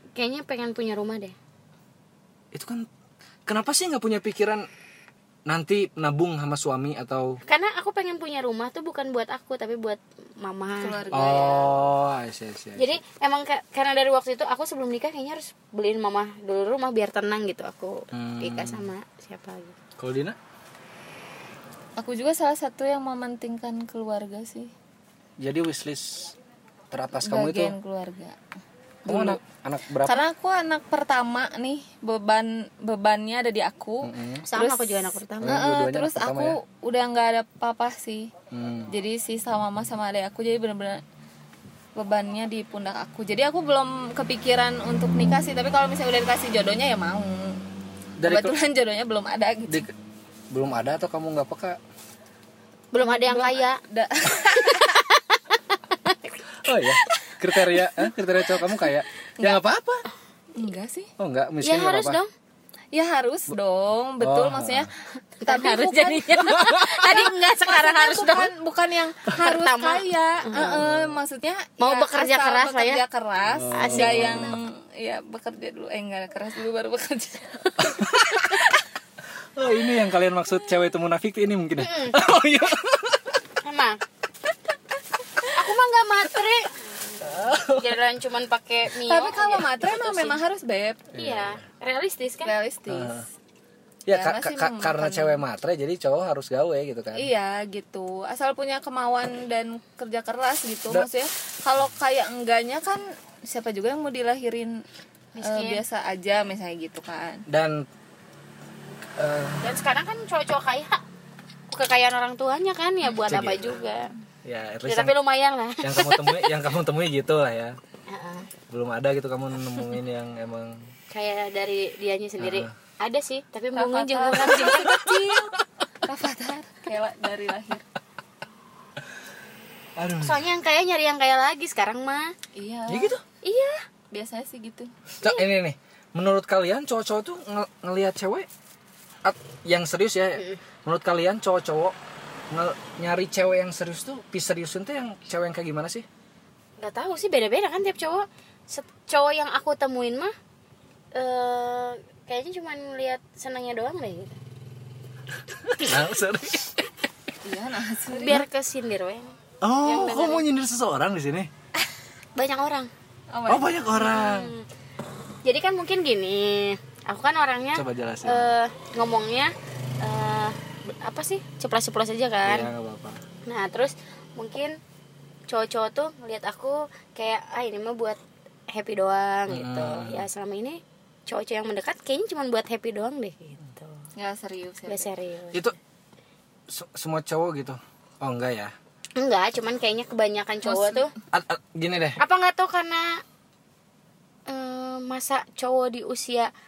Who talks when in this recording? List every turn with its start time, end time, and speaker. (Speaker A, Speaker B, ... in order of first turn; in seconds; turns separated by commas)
Speaker A: 0.1-1.3, Speaker B: 2.5-2.9, Speaker B: 3.5-4.7, Speaker B: 5.5-7.4, Speaker A: 7.5-11.8, Speaker C: 10.8-11.7, Speaker B: 11.1-13.0, Speaker A: 12.8-19.8, Speaker B: 18.1-18.9, Speaker B: 20.0-20.4, Speaker C: 22.0-24.7, Speaker B: 25.4-26.3, Speaker B: 26.9-27.7, Speaker C: 27.1-28.4, Speaker A: 29.1-29.4, Speaker B: 29.1-30.2, Speaker C: 30.0-38.3, Speaker B: 34.0-34.4, Speaker A: 34.5-35.6, Speaker B: 35.4-36.5, Speaker B: 38.5-38.9, Speaker C: 38.9-41.0, Speaker C: 42.0-47.6, Speaker B: 48.2-48.5, Speaker C: 48.2-49.9, Speaker B: 50.5-51.8, Speaker A: 52.9-53.8, Speaker C: 53.0-55.0, Speaker A: 54.5-56.4, Speaker B: 56.6-60.0, Speaker A: 57.0-57.9, Speaker C: 60.5-61.1, Speaker B: 61.2-62.2, Speaker A: 61.6-62.3, Speaker C: 62.9-78.8, Speaker B: 64.2-64.9, Speaker A: 65.4-68.5, Speaker B: 66.4-67.2, Speaker A: 69.3-70.8, Speaker B: 70.7-71.2, Speaker A: 71.8-73.0, Speaker B: 73.5-74.6, Speaker A: 73.7-74.6, Speaker B: 77.8-78.6, Speaker B: 79.5-83.4, Speaker A: 81.8-82.2, Speaker A: 83.6-84.0, Speaker A: 85.5-90.4, Speaker B: 87.2-88.0, Speaker C: 89.0-91.1, Speaker B: 91.1-91.5, Speaker A: 91.1-92.5, Speaker C: 92.4-93.2, Speaker B: 92.9-93.2, Speaker B: 94.1-97.3, Speaker C: 94.1-95.4, Speaker C: 97.1-104.8, Speaker A: 105.3-105.8, Speaker C: 105.4-107.4, Speaker B: 107.5-107.9, Speaker B: 109.2-109.7, Speaker A: 109.6-111.0, Speaker A: 111.7-114.1, Speaker B: 113.2-113.8, Speaker B: 114.4-115.2, Speaker A: 114.9-116.5, Speaker B: 115.8-117.8, Speaker A: 118.1-118.5, Speaker B: 118.7-120.8, Speaker A: 121.1-125.0, Speaker B: 122.4-122.7, Speaker C: 123.7-127.8, Speaker B: 124.5-125.5, Speaker B: 130.0-130.5, Speaker A: 130.2-132.3, Speaker C: 132.5-133.1, Speaker B: 132.9-133.2, Speaker A: 133.4-133.8, Speaker C: 134.1-134.9, Speaker B: 135.2-138.5, Speaker B: 139.2-141.9, Speaker B: 142.5-146.1, Speaker A: 146.8-150.3, Speaker A: 151.1-154.4, Speaker B: 155.5-156.8, Speaker C: 157.4-158.4, Speaker A: 158.1-160.4, Speaker B: 159.6-161.5, Speaker A: 162.3-162.9, Speaker C: 163.3-163.9, Speaker B: 163.5-164.5, Speaker A: 163.9-164.7, Speaker A: 165.4-172.7, Speaker B: 167.7-168.6, Speaker B: 172.4-173.2, Speaker A: 173.4-174.8, Speaker A: 175.5-183.9, Speaker B: 179.5-180.3, Speaker C: 184.2-185.1, Speaker A: 184.9-185.7, Speaker B: 186.7-188.7, Speaker A: 189.2-191.1, Speaker C: 190.6-191.1, Speaker B: 191.3-192.2, Speaker A: 192.2-193.2, Speaker A: 194.5-196.5